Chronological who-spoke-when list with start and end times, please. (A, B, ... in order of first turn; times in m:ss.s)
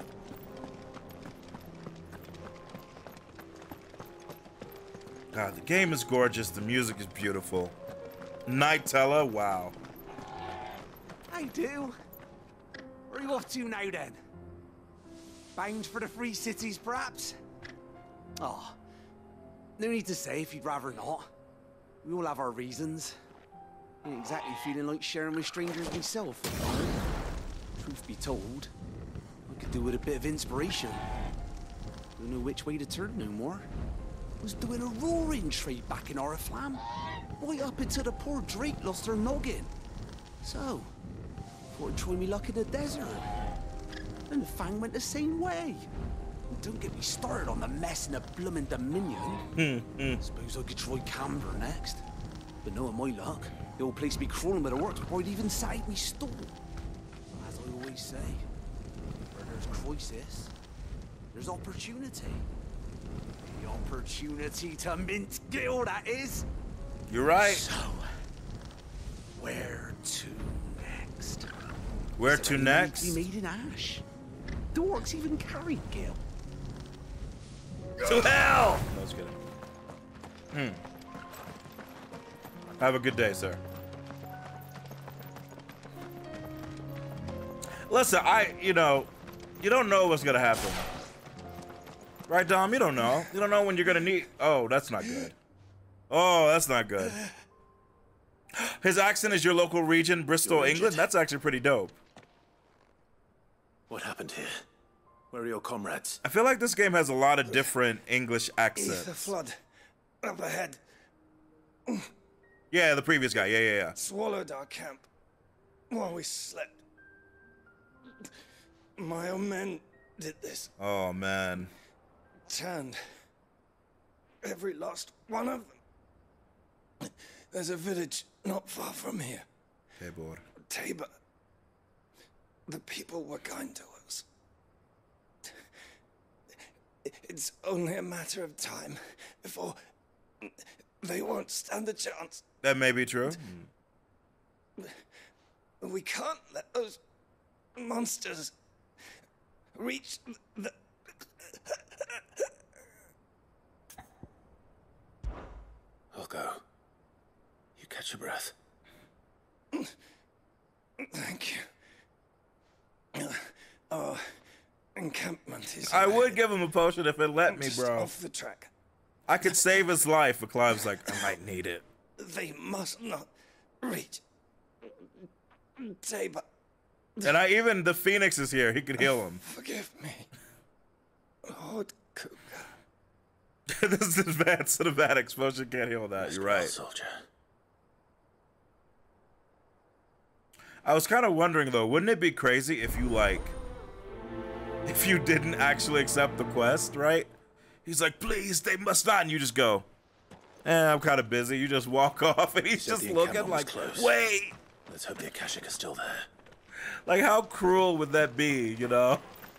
0:05.3-0:07.7 A
0:08.5-0:09.8 A
0:11.3-0:12.0 B
0:13.1-0:14.2 B
0:15.6-0:17.4 B
0:18.4-0:18.8 B
0:19.8-0:21.3 B
0:22.0-0:23.2 B
0:24.0-0:27.0 B
0:27.8-0:28.7 B
0:29.5-0:31.1 B
0:32.2-0:33.7 B
0:34.4-0:36.8 B
0:37.4-0:39.7 B
0:40.4-0:40.9 B
0:41.8-0:43.4 B
0:44.3-0:45.9 B
0:46.5-0:49.4 B
0:49.6-0:50.2 A
0:50.2-0:52.0 B
0:52.6-0:56.5 B
0:57.4-0:58.5 B
0:59.3-1:00.5 B
1:01.3-1:02.5 B
1:03.5-1:06.5 B
1:07.1-1:07.6 A
1:07.4-1:08.1 B
1:09.4-1:11.5 B
1:12.2-1:13.2 A
1:12.2-1:14.0 B
1:14.7-1:16.2 B
1:18.0-1:19.4 A
1:20.5-1:20.8 A
1:22.8-1:23.6 A
1:27.9-1:29.1 A
1:29.6-1:30.9 A
1:32.3-1:35.4 A
1:36.1-1:37.2 A
1:38.6-1:42.0 A
1:40.4-1:41.1 C
1:43.9-1:44.6 C
1:45.3-1:46.2 C
1:46.2-1:49.4 A
1:48.8-1:49.5 D
1:50.2-1:50.8 D
1:52.7-1:54.0 A
1:54.0-1:55.0 D
1:55.9-1:56.8 D
1:59.0-2:00.7 D
2:00.8-2:01.7 A
2:02.5-2:03.0 D
2:04.5-2:05.7 D
2:07.5-2:09.4 D
2:10.0-2:10.4 A
2:10.7-2:11.1 D
2:12.7-2:14.2 D
2:17.2-2:19.8 D
2:21.0-2:22.4 D
2:22.6-2:23.5 A
2:25.8-2:27.0 D
2:27.8-2:28.5 D
2:29.8-2:30.7 D
2:36.1-2:36.6 C
2:37.8-2:38.5 C
2:41.0-2:41.7 D
2:43.9-2:44.2 D
2:45.0-2:46.2 D
2:45.8-2:48.1 A
2:47.5-2:48.7 D
2:49.3-2:51.8 A
2:52.2-2:53.3 D
2:53.9-2:54.2 D
2:56.0-2:56.4 D
2:57.2-2:59.4 A
2:59.5-3:00.2 D
3:01.5-3:02.4 D
3:03.7-3:06.7 A
3:06.2-3:07.2 C
3:10.8-3:13.6 A
3:14.9-3:17.3 A
3:17.8-3:19.9 A
3:20.6-3:24.6 A
3:22.8-3:24.2 C
3:24.9-3:26.3 C
3:27.1-3:29.2 A